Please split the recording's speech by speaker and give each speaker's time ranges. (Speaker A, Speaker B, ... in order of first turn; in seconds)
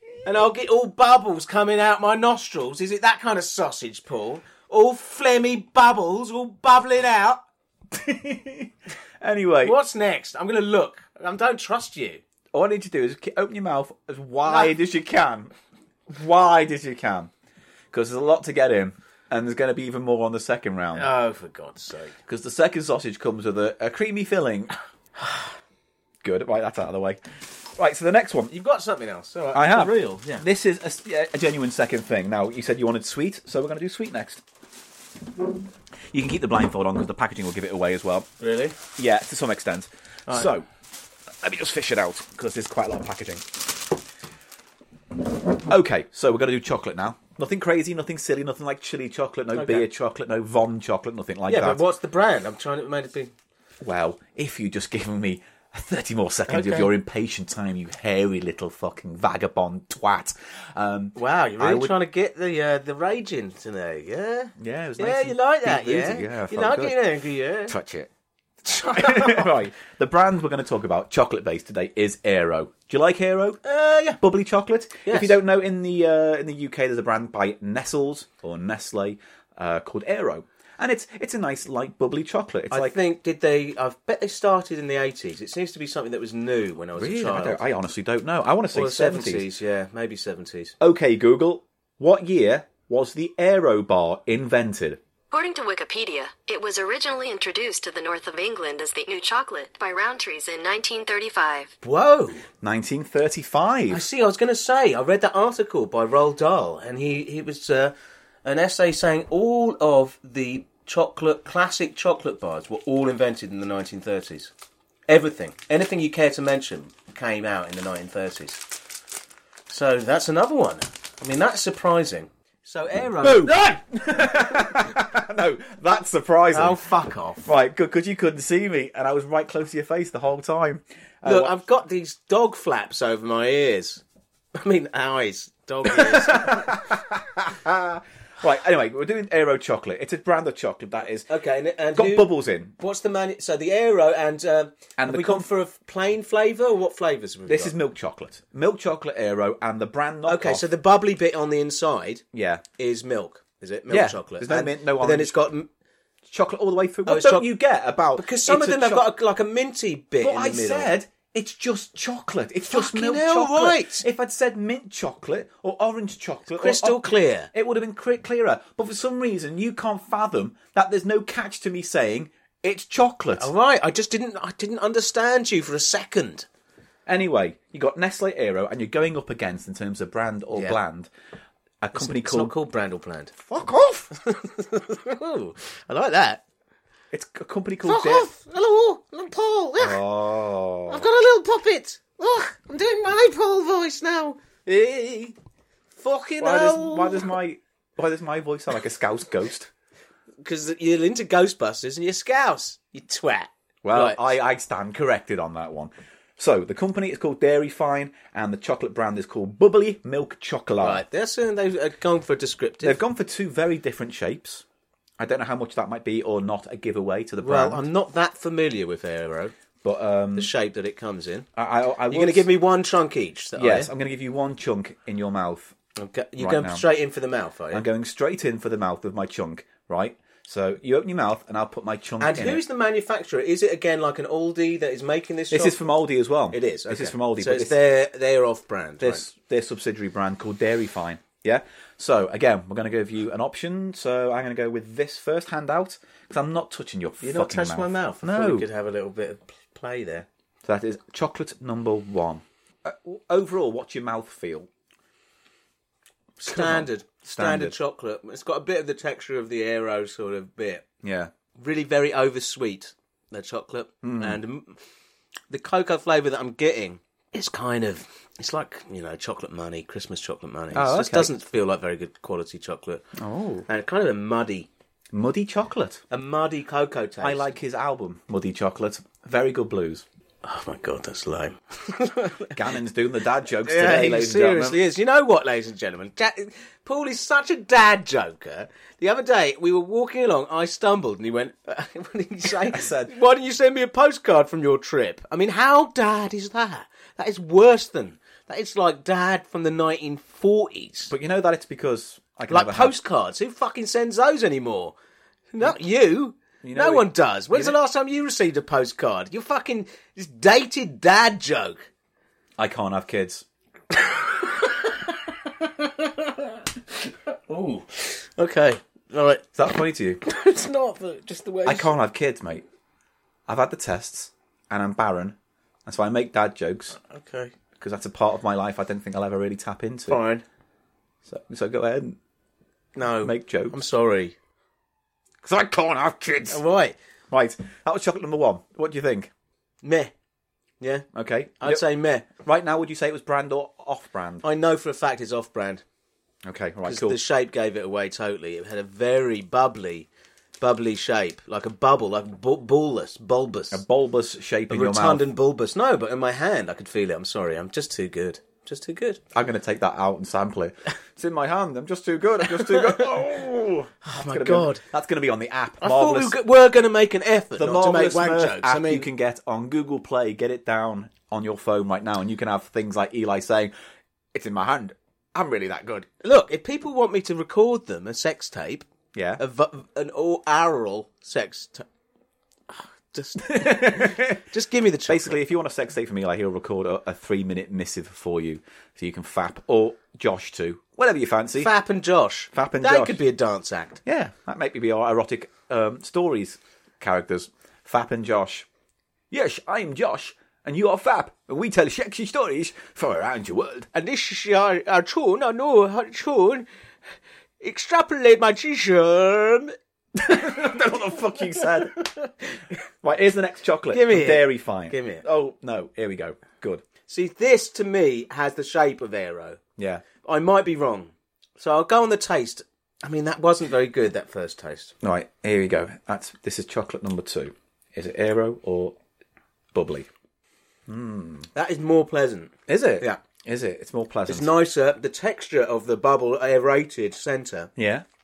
Speaker A: 0.2-7.4, 9.6-12.2, 20.9-22.1, 28.5-30.4, 38.4-38.8, 49.5-49.9, 51.5-53.3, 56.5-56.9, 61.1-67.8, 68.6-69.5, 73.6-74.2, 75.0-75.4, 82.7-87.6, 88.7-90.8, 101.8-102.4, 103.9-114.5, 115.1-118.6, 119.7-124.8, 126.5-127.5, 131.2-134.0, 134.5-136.8, 141.3-147.8, 150.2-152.2, 152.8-155.7, 157.1-157.5, 158.1-160.9, 162.7-164.0, 166.6-167.5, 173.3-176.5, 181.9-183.6, 184.1-186.4, 187.8-190.0, 190.9-195.3, 195.9-197.3, 200.4-204.3, 210.8-213.0, 217.4-219.5, 220.3-221.5, 222.1-223.9, 225.9-227.8, 232.2-235.8, 236.5-239.2, 247.2-250.3, 256.4-260.8, 261.6-264.8, 265.5-273.0, 273.7-274.7, 276.1-277.5, 280.4-282.6, 283.5-301.1, 302.5-304.9, 305.5-311.9, 313.9-319.6, 320.2-321.9, 327.0-327.5, 330.1-330.4, 332.9-334.3, 336.5-336.9, 339.8-340.1, 340.8-341.1, 341.6-342.3, 344.4-345.8, 346.8-350.1, 350.6-353.8, 354.7-359.2, 362.4-363.2, 364.0-364.8, 365.8-369.1, 376.2-378.9, 379.4-381.9, 382.7-385.4, 391.6-394.0, 403.9-406.7, 407.6-410.8, 411.5-412.3, 413.9-415.2, 417.1-419.6, 420.2-424.9, 431.5-433.2, 434.3-437.7
Speaker B: 7.9-9.8, 12.5-15.5, 16.1-17.3, 17.9-21.1, 22.2-24.7, 26.2-27.2, 27.8-28.5, 29.5-34.4, 36.1-38.3, 39.0-40.6, 41.4-43.5, 45.7-51.8, 53.8-62.0, 64.6-67.0, 67.7-68.1, 68.9-73.6, 74.2-83.0, 87.0-89.5, 90.8-95.0, 102.6-104.0, 123.2-126.8, 127.4-131.5, 136.2-141.3, 141.9-142.7, 145.0-145.5, 147.5-150.7, 152.3-152.6, 153.9-155.4, 156.3-159.1, 160.2-173.5, 177.1-181.1, 181.8-182.5, 183.5-184.1, 187.1-188.3, 189.8-191.0, 196.4-199.7, 203.8-211.0, 212.8-214.6, 215.2-217.8, 219.8-220.5, 221.6-222.5, 223.6-225.8, 226.4-226.8, 227.7-232.6, 235.5-237.8, 239.0-248.7, 250.6-254.7, 256.4-257.7, 261.0-261.3, 264.0-264.4, 270.7-271.3, 273.2-273.6, 275.1-276.0, 277.2-280.0, 282.5-284.8, 292.7-293.1, 301.1-303.0, 306.6-307.8, 312.6-313.4, 319.6-320.2, 321.6-322.6, 323.5-327.0, 327.8-330.2, 331.2-332.2, 333.2-333.8, 335.4-336.6, 337.3-339.3, 341.1-344.4, 346.4-347.2, 353.7-355.3, 359.3-366.4, 367.6-373.7, 374.3-376.1, 379.1-379.4, 383.4-384.4, 385.1-391.7, 392.5-393.2, 394.0-398.7, 399.3-403.9, 410.3-412.1, 413.0-416.8, 419.8-420.0, 425.0-428.9, 429.7-430.1, 430.9-431.5, 432.7-434.5, 437.8-438.0
Speaker C: 95.3-101.7